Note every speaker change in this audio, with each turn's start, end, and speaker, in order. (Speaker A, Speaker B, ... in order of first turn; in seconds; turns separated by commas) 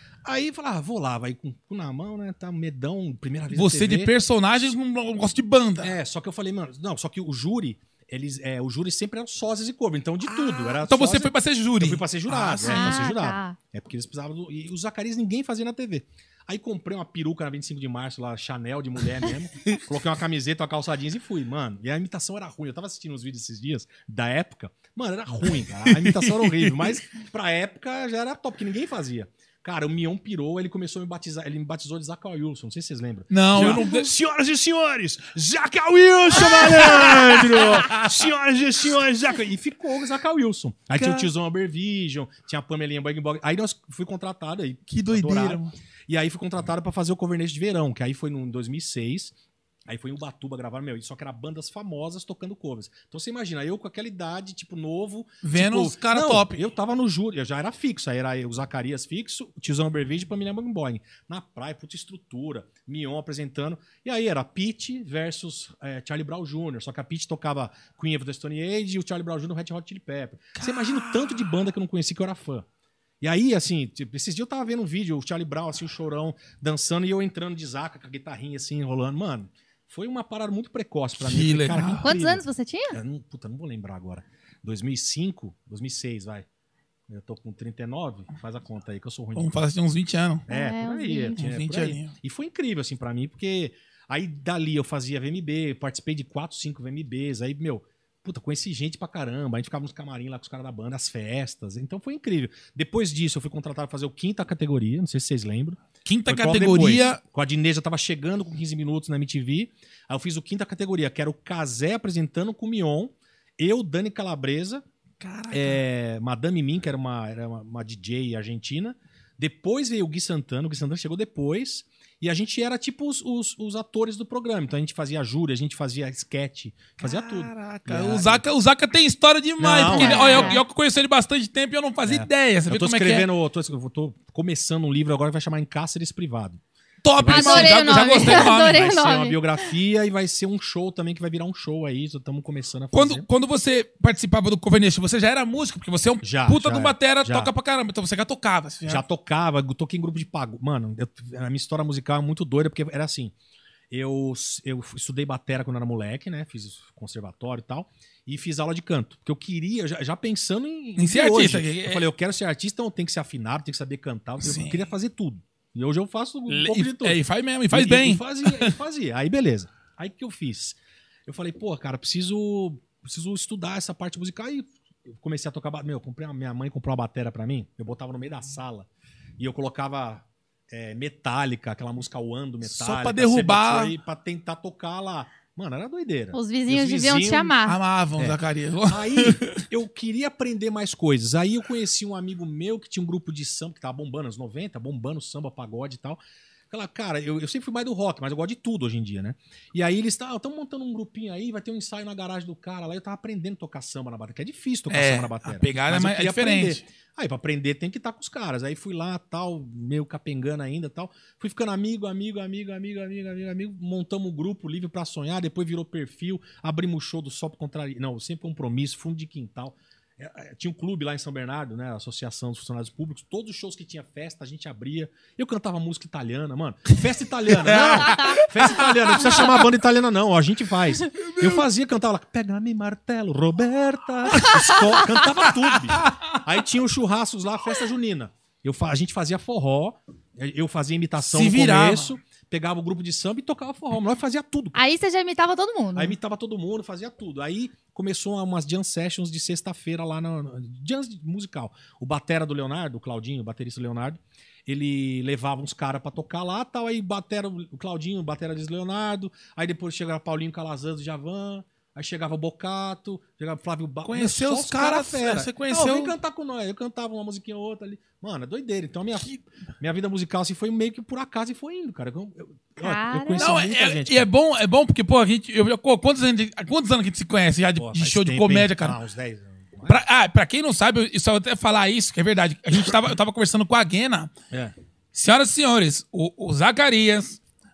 Speaker A: 0.2-4.7, Speaker B: 3.5-5.9, Speaker A: 5.8-49.3, Speaker B: 10.3-13.0, Speaker C: 12.6-13.6, Speaker B: 25.9-27.0, Speaker B: 33.3-34.1, Speaker B: 36.3-38.1, Speaker B: 40.9-41.3, Speaker B: 44.9-45.7, Speaker A: 49.9-72.7, Speaker B: 55.4-56.6, Speaker B: 70.6-71.5, Speaker A: 73.2-86.5, Speaker B: 81.2-82.0, Speaker C: 82.0-83.0, Speaker A: 87.1-89.5, Speaker B: 89.3-90.5, Speaker A: 90.5-114.8, Speaker C: 90.5-91.3, Speaker B: 91.4-92.1, Speaker B: 106.0-107.2, Speaker B: 115.2-115.8, Speaker A: 115.5-128.4, Speaker B: 127.0-133.3, Speaker A: 129.6-130.6, Speaker C: 129.9-130.6, Speaker A: 132.1-136.6, Speaker B: 137.0-139.0, Speaker A: 137.2-143.3, Speaker C: 137.3-139.4, Speaker B: 142.9-149.0, Speaker A: 146.2-147.5, Speaker A: 148.9-153.3, Speaker A: 153.9-167.2, Speaker B: 161.0-162.1, Speaker B: 164.4-164.8, Speaker B: 166.5-168.7, Speaker A: 167.7-178.9, Speaker A: 179.4-187.6, Speaker B: 182.6-183.9, Speaker C: 186.3-187.8, Speaker B: 187.7-189.6, Speaker A: 188.2-244.8, Speaker B: 204.9-206.8, Speaker B: 227.6-229.6, Speaker B: 231.2-231.7, Speaker B: 234.4-236.4, Speaker B: 241.2-242.1, Speaker C: 244.8-246.2, Speaker A: 245.9-274.3, Speaker B: 264.1-266.1, Speaker C: 272.8-273.5, Speaker B: 273.4-279.0, Speaker A: 277.8-280.0, Speaker B: 279.9-284.3, Speaker B: 285.1-287.4